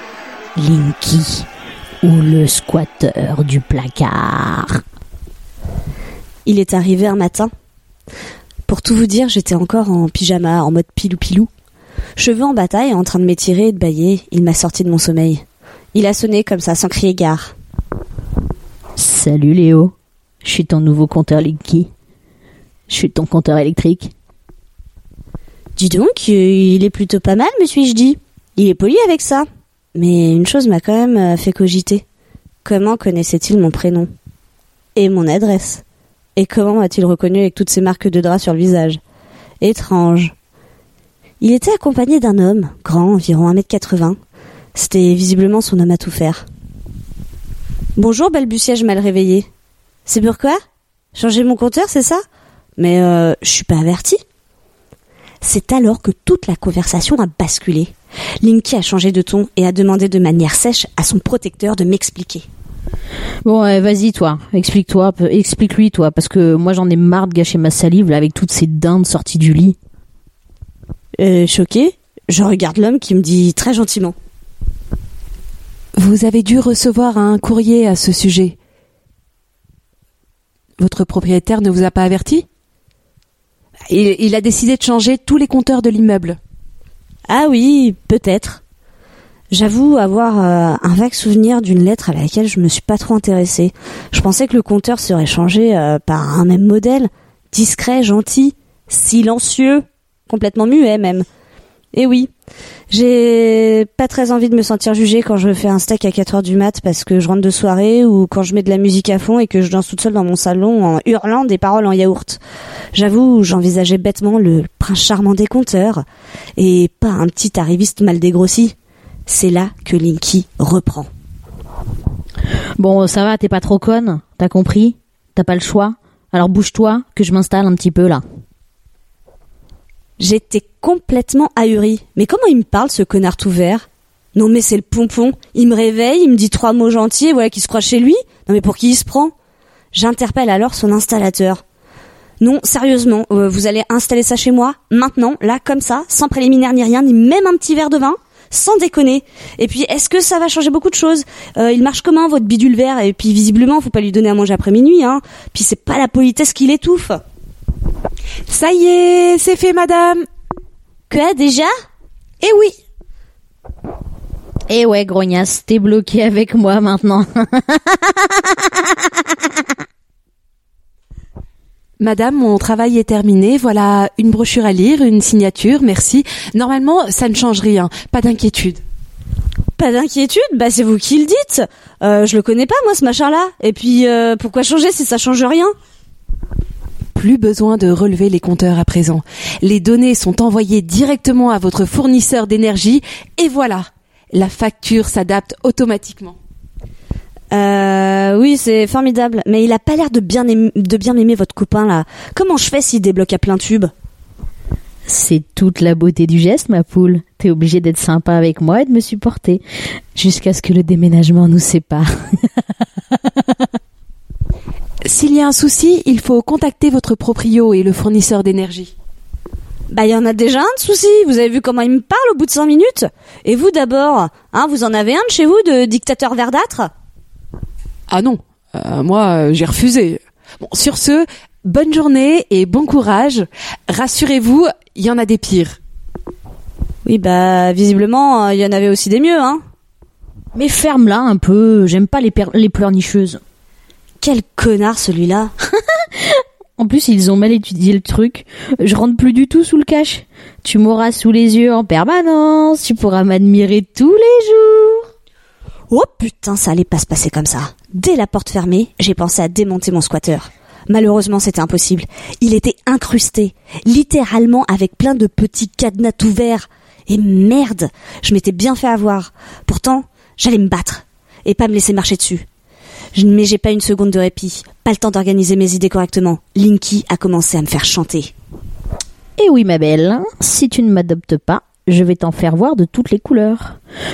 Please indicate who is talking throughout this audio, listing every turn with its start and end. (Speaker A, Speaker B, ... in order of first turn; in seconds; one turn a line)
Speaker A: 0.6-1.5
Speaker A: 2.0-4.8
Speaker B: 6.5-7.5
Speaker B: 8.7-11.5
Speaker B: 12.2-15.4
Speaker B: 15.9-17.5
Speaker A: 19.0-21.9
Speaker A: 22.9-24.1
Speaker B: 25.8-32.0
Speaker B: 32.6-34.1
Speaker B: 35.0-35.8
Speaker B: 36.4-39.0
Speaker B: 39.6-40.3
Speaker B: 41.4-44.2
Speaker B: 44.8-46.5
Speaker B: 48.0-49.5
Speaker B: 50.1-50.6
Speaker B: 51.1-52.2
Speaker B: 52.8-54.2
Speaker B: 55.4-62.5
Speaker A: 63.5-69.8
Speaker B: 71.2-74.2
Speaker C: 76.0-78.6
Speaker C: 80.8-82.5
Speaker C: 83.9-86.4
Speaker B: 87.3-88.6
Speaker B: 89.5-101.3
Speaker B: 101.9-102.3
Speaker B: 102.9-112.4
Speaker B: 113.0-116.0
Speaker B: 116.6-118.8
Speaker B: 119.3-121.1
Speaker A: 122.8-128.2
Speaker B: 130.2-139.3
Speaker B: 139.9-141.6
Speaker B: 142.4-157.2
Speaker C: 158.5-160.2
Speaker B: 161.1-161.7
Speaker C: 162.4-162.8
Speaker A: 164.7-168.8
Speaker C: 172.0-178.8
Speaker B: 179.8-185.7
Speaker C: 187.2-196.4
Speaker B: 197.5-203.9
Speaker A: 205.1-209.6
Speaker A: 210.2-212.4
Speaker C: 215.1-218.9
Speaker B: 219.9-226.9
Speaker C: 228.1-235.8
Speaker B: 237.1-239.6
Speaker A: 240.5-243.4
Speaker B: 244.2-245.5
Speaker A: 246.8-255.0
Speaker B: 255.9-272.5
Speaker B: 273.1-278.3
Speaker A: 279.4-283.8